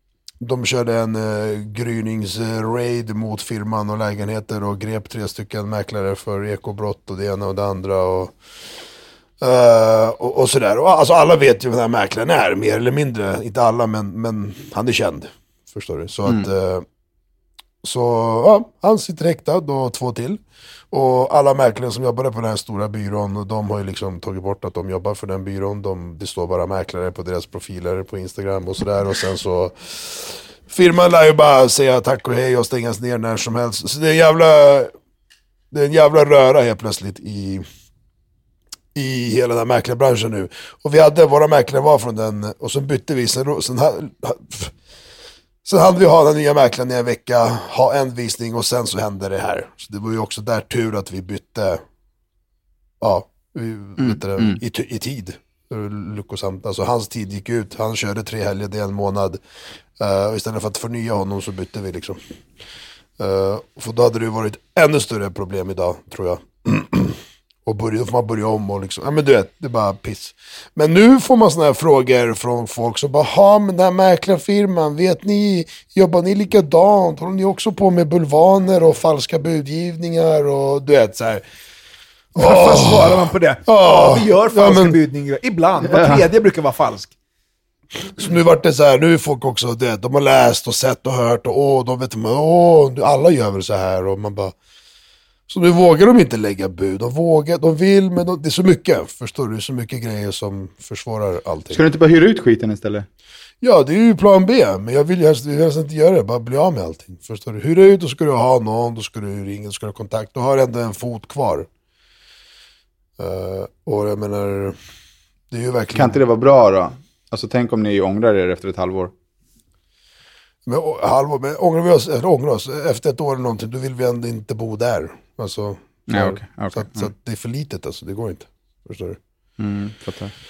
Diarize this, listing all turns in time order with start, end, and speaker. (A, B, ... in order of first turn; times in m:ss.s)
0:00.4-0:08.4 A
0:09.4-0:16.8 A
0:17.8-0:34.9 A
0:35.7-0:37.6 A
0:38.9-0:44.7 A
0:45.6-0:51.8 A
0:53.0-0:59.4 A
0:54.0-0:54.6 B
1:00.0-1:02.2 A
1:03.2-1:21.4 A
1:22.3-1:25.0 A
1:22.4-1:27.1 C
1:25.9-1:26.2 B
1:28.2-1:34.5 A
1:35.5-1:41.8 A
1:41.7-1:43.1 B
1:43.6-1:51.7 A
1:53.2-1:54.8 A
1:55.5-1:56.2 A
1:55.9-1:59.1 B
2:00.6-2:09.2 A
2:06.1-2:07.1 B
2:09.6-2:10.3 B